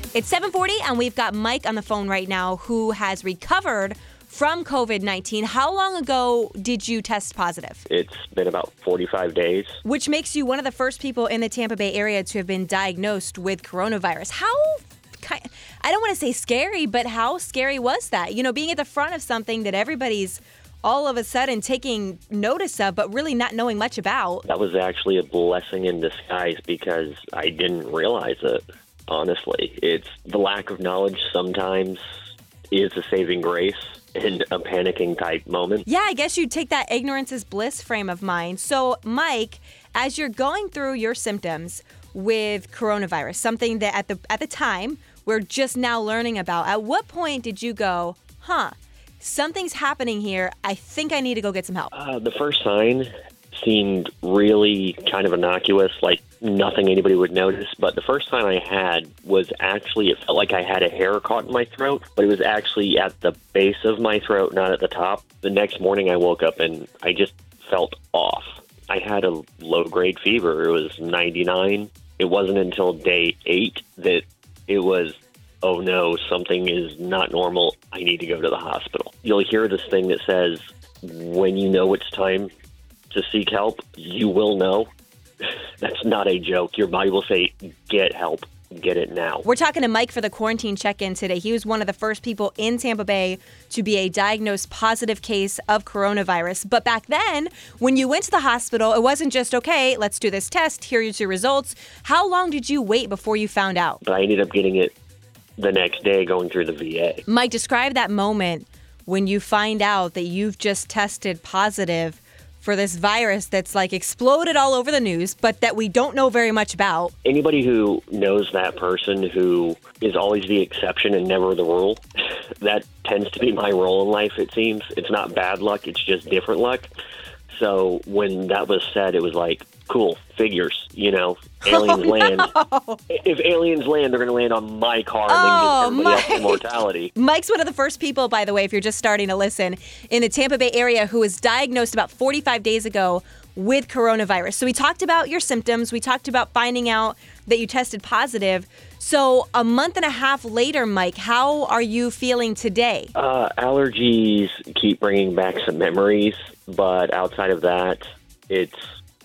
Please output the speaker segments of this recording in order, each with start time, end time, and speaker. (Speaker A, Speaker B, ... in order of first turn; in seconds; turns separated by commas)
Speaker A: 0.1-7.8, Speaker B: 7.9-9.8, Speaker A: 9.8-24.4, Speaker B: 24.4-32.0, Speaker B: 32.7-35.8, Speaker A: 35.9-51.9, Speaker B: 51.9-82.5, Speaker B: 83.1-84.9, Speaker B: 85.5-89.5, Speaker A: 89.4-104.0, Speaker B: 104.0-104.9, Speaker B: 105.6-107.2, Speaker A: 107.3-117.1, Speaker B: 117.2-122.0, Speaker B: 122.6-126.9, Speaker B: 127.5-132.5, Speaker A: 131.7-133.0, Speaker B: 133.1-137.1, Speaker A: 135.3-153.1, Speaker B: 153.1-158.9